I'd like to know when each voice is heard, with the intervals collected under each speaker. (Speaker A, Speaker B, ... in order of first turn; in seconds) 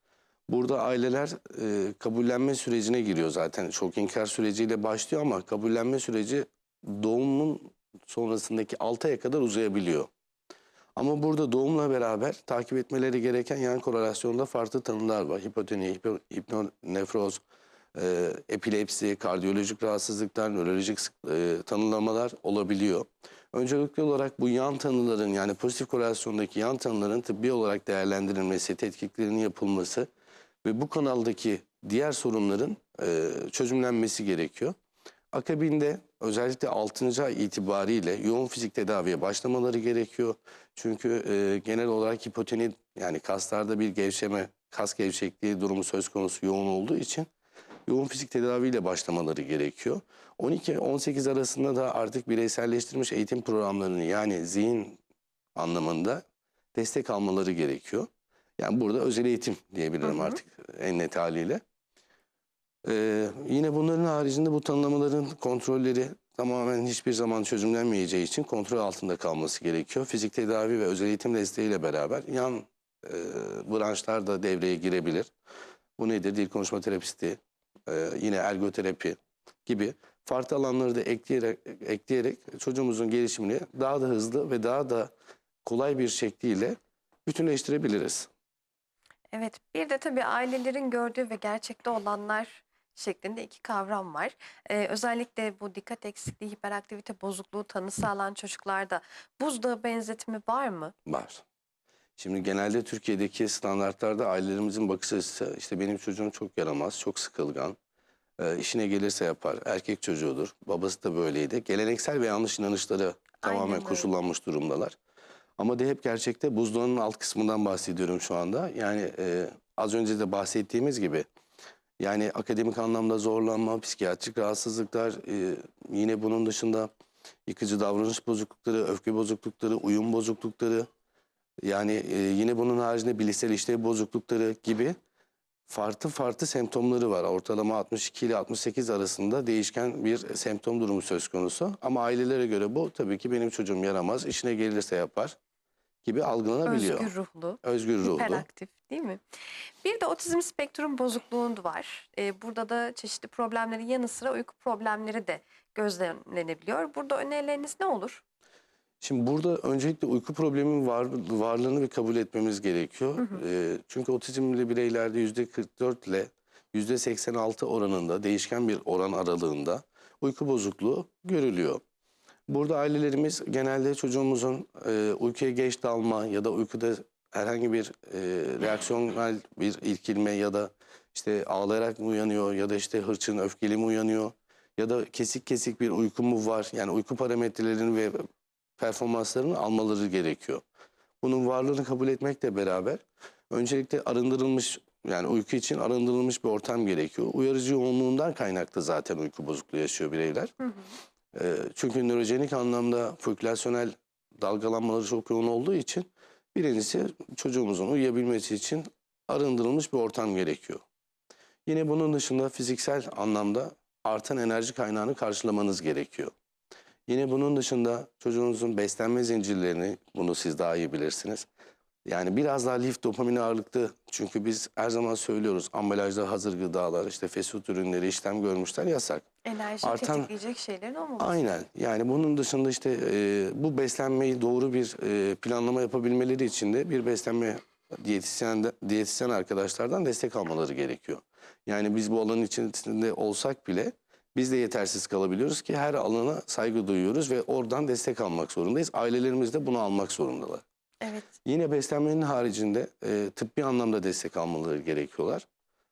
Speaker A: 0.5-10.1, 10.9-17.4, 17.9-30.1, 30.6-34.7, 35.3-47.3, 47.9-55.0, 55.5-61.6, 62.8-75.3, 76.0-85.1, 85.6-88.3, 101.0-101.4, 102.2-107.8, 108.4-115.0, 115.6-121.2, 122.0-126.9, 127.5-130.9, 131.6-135.0, 135.7-145.3, 146.0-147.1, 147.6-148.4, 159.0-171.8, 172.5-188.2, 188.8-190.6, 191.2-200.5, 201.3-210.8, 211.7-216.3, 217.1-221.5, 222.1-229.2, 229.8-230.3, 231.2-250.6, 251.4-255.4
Speaker B: 60.0-60.4, 89.3-100.9, 113.4-114.1, 146.6-149.2, 149.8-158.2, 200.6-200.9, 229.4-231.4, 251.0-251.3